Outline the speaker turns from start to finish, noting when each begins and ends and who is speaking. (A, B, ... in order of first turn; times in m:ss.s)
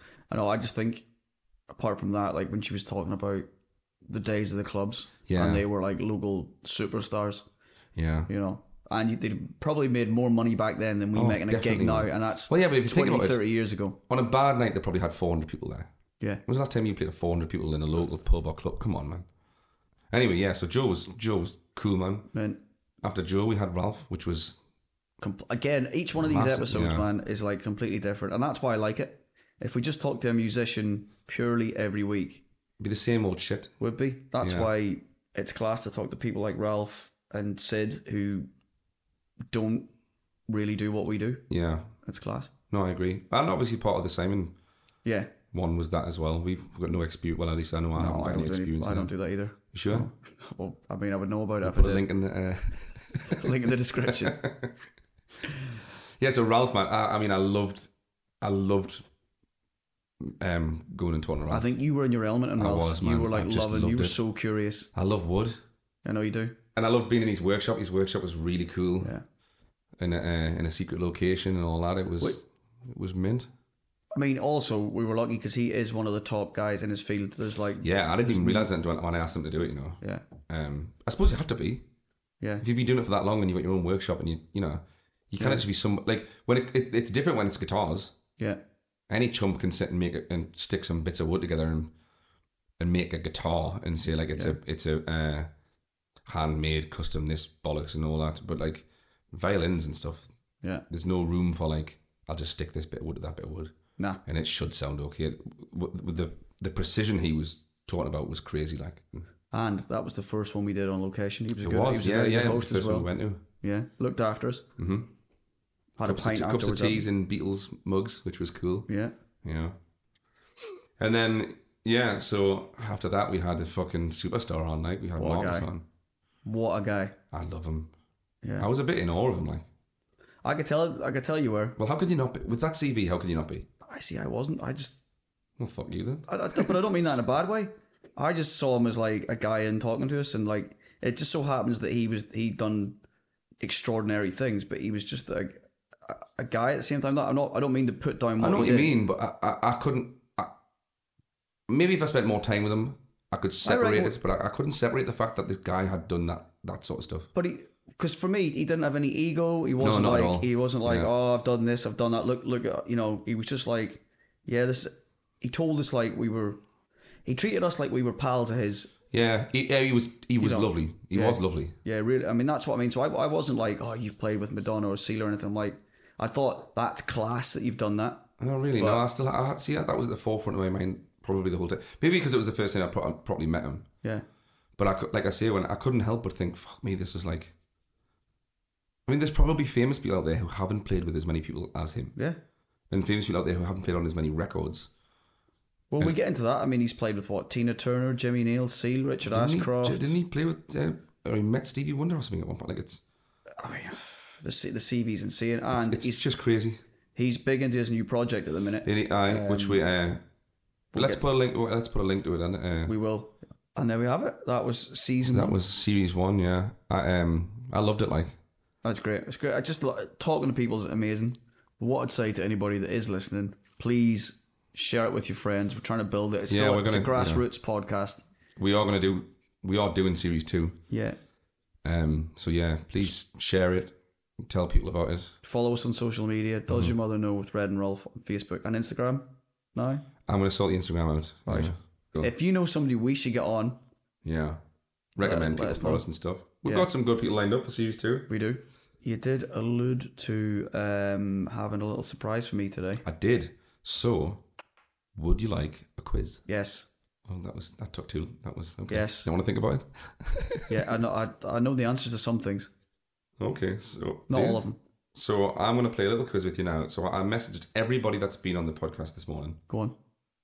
0:00.3-0:01.0 A
0:01.7-0:03.5 A
0:04.1-0:07.4 A
0:05.3-0:05.6 B
0:08.0-0:08.3 B
0:08.3-0:14.0 A
0:11.1-0:13.4 B
0:14.1-0:15.9 B
0:16.5-0:19.3 B
0:20.1-0:22.3 B
0:22.3-0:22.6 A
0:23.0-0:24.6 B
0:25.2-0:32.4 A
0:26.2-0:27.1 B
0:32.8-0:33.7 B
0:33.8-0:38.5 A
0:34.4-0:34.7 B
0:39.5-0:39.9 A
0:40.5-0:41.4 A
0:41.5-0:41.9 B
0:42.0-0:42.5 A
0:42.7-0:44.5 B
0:45.0-0:45.3 A
0:45.5-0:49.1 B
0:48.0-0:52.1 A
0:49.7-0:50.1 B
0:51.6-0:53.4 B
0:53.2-0:54.4 A
0:54.1-0:54.7 B
0:56.2-0:57.9 B
0:58.4-0:59.0 B
1:00.2-1:01.7 B
1:01.5-1:04.9 A
1:02.6-1:04.2 B
1:04.9-1:05.6 B
1:06.0-1:06.6 A
1:06.8-1:09.1 B
1:10.0-1:13.5 B
1:14.2-1:18.7 A
1:17.8-1:21.9 B
1:22.6-1:28.2 B
1:25.4-1:25.6 A
1:29.1-1:31.9 B
1:32.8-1:35.5 B
1:36.3-1:40.3 B
1:40.9-1:43.7 B
1:44.3-1:49.3 B
1:49.5-1:53.1 A
1:51.6-1:53.4 B
1:53.6-1:54.6 A
1:54.8-1:55.1 B
1:56.0-1:57.1 A
1:56.0-1:58.9 B
1:58.9-1:59.1 A
1:59.4-1:59.8 B
2:01.0-2:05.8 B
2:05.2-2:05.7 A
2:06.4-2:07.1 A
2:07.3-2:07.9 B
2:08.4-2:08.7 A
2:08.6-2:09.7 B
2:10.4-2:11.8 A
2:11.8-2:13.7 B
2:13.8-2:15.0 A
2:15.6-2:16.8 B
2:16.3-2:23.0 A
2:23.6-2:28.9 A
2:28.4-2:30.5 B
2:31.7-2:37.3 B
2:33.6-2:34.2 A
2:37.3-2:46.6 A
2:39.8-2:41.1 B
2:47.2-2:48.9 A
2:49.1-2:51.8 B
2:50.4-2:59.0 A
2:58.4-3:03.9 B
3:04.8-3:07.6 B
3:09.1-3:12.1 B
3:12.9-3:14.9 B
3:15.9-3:20.2 A
3:19.2-3:23.0 B
3:23.6-3:26.2 A
3:25.7-3:26.8 B
3:27.2-3:29.8 A
3:28.8-3:30.2 B
3:30.9-3:31.3 A
3:31.0-3:32.9 B
3:32.9-3:35.6 A
3:35.2-3:38.4 B
3:38.8-3:48.2 A
3:46.5-3:47.4 B
3:48.6-3:50.8 B
3:50.9-3:51.2 A
3:51.8-3:55.4 B
3:55.4-4:00.1 A
3:56.7-3:57.0 B
4:00.3-4:02.3 B
4:01.5-4:03.8 A
4:04.2-4:04.6 B
4:05.2-4:08.3 B
4:05.2-4:06.1 A
4:06.6-4:06.9 A
4:08.3-4:13.0 A
4:13.0-4:14.4 B
4:15.2-4:16.4 B
4:16.5-4:16.9 A
4:17.3-4:20.8 B
4:18.9-4:19.3 A
4:20.7-4:22.7 A
4:23.4-4:24.6 B
4:24.3-4:24.8 A
4:25.2-4:29.6 B
4:29.7-4:30.0 A